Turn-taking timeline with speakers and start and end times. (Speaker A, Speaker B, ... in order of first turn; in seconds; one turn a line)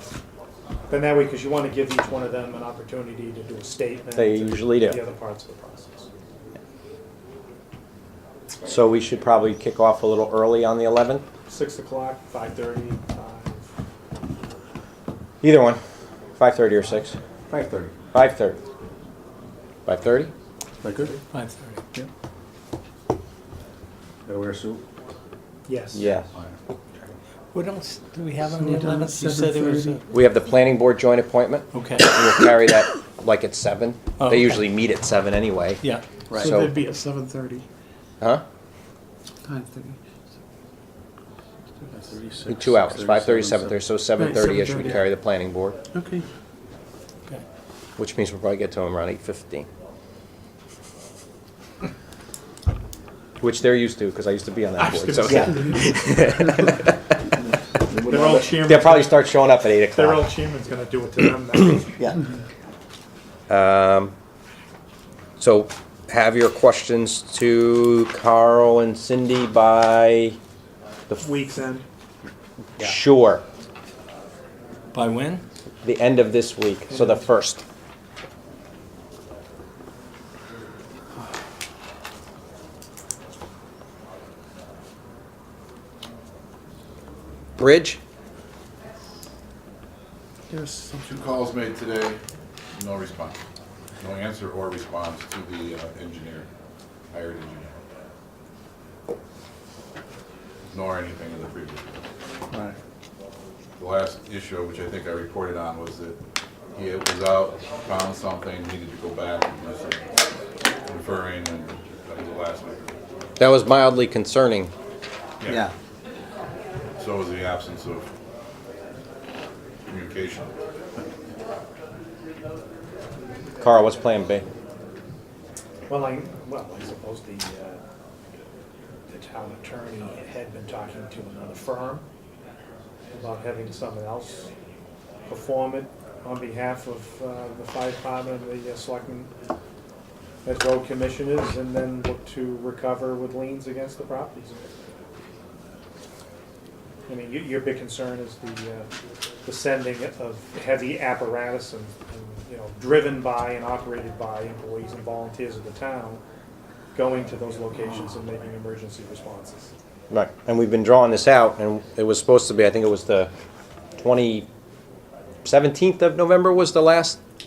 Speaker A: 0.9-6.1
Speaker B: 4.2-5.0
Speaker B: 8.7-11.2
Speaker A: 11.5-13.7
Speaker B: 15.4-15.8
Speaker B: 16.4-17.2
Speaker C: 17.5-17.9
Speaker B: 18.1-18.6
Speaker B: 19.9-20.3
Speaker C: 20.8-21.2
Speaker D: 21.3-21.8
Speaker C: 24.3-24.8
Speaker A: 25.7-26.1
Speaker B: 25.9-26.3
Speaker C: 26.3-27.1
Speaker D: 27.5-30.0
Speaker E: 28.4-30.0
Speaker B: 30.1-35.8
Speaker D: 31.7-32.2
Speaker D: 34.2-34.6
Speaker C: 36.3-36.6
Speaker B: 36.4-36.8
Speaker E: 36.4-37.6
Speaker E: 39.5-40.0
Speaker C: 41.9-43.8
Speaker B: 42.5-45.8
Speaker E: 44.2-45.0
Speaker E: 45.9-46.2
Speaker B: 48.0-49.7
Speaker B: 53.4-57.0
Speaker A: 54.8-55.9
Speaker C: 55.2-55.8
Speaker C: 57.9-58.6
Speaker A: 58.1-59.2
Speaker B: 58.6-60.3
Speaker A: 59.9-62.1
Speaker B: 63.5-64.1
Speaker B: 65.4-70.4
Speaker A: 71.2-71.8
Speaker B: 72.8-73.4
Speaker D: 74.9-75.4
Speaker B: 75.8-77.6
Speaker A: 76.9-77.3
Speaker B: 87.6-88.0
Speaker E: 90.5-90.9
Speaker F: 91.0-92.2
Speaker F: 92.8-93.4
Speaker F: 94.0-96.5
Speaker F: 97.1-97.8
Speaker F: 100.7-101.9
Speaker C: 102.5-102.8
Speaker F: 103.8-106.2
Speaker F: 106.7-110.1
Speaker F: 110.9-113.0
Speaker B: 113.4-114.7
Speaker F: 115.4-115.7
Speaker C: 115.5-115.7
Speaker F: 117.0-118.1
Speaker F: 119.9-120.5
Speaker B: 123.6-124.5
Speaker A: 125.9-127.8
Speaker A: 129.1-132.1
Speaker A: 133.1-134.5
Speaker A: 135.3-139.3
Speaker A: 140.4-144.7
Speaker A: 147.1-148.9
Speaker A: 149.4-156.2
Speaker A: 156.9-159.7
Speaker B: 160.1-163.3
Speaker B: 164.0-164.5
Speaker B: 165.4-167.2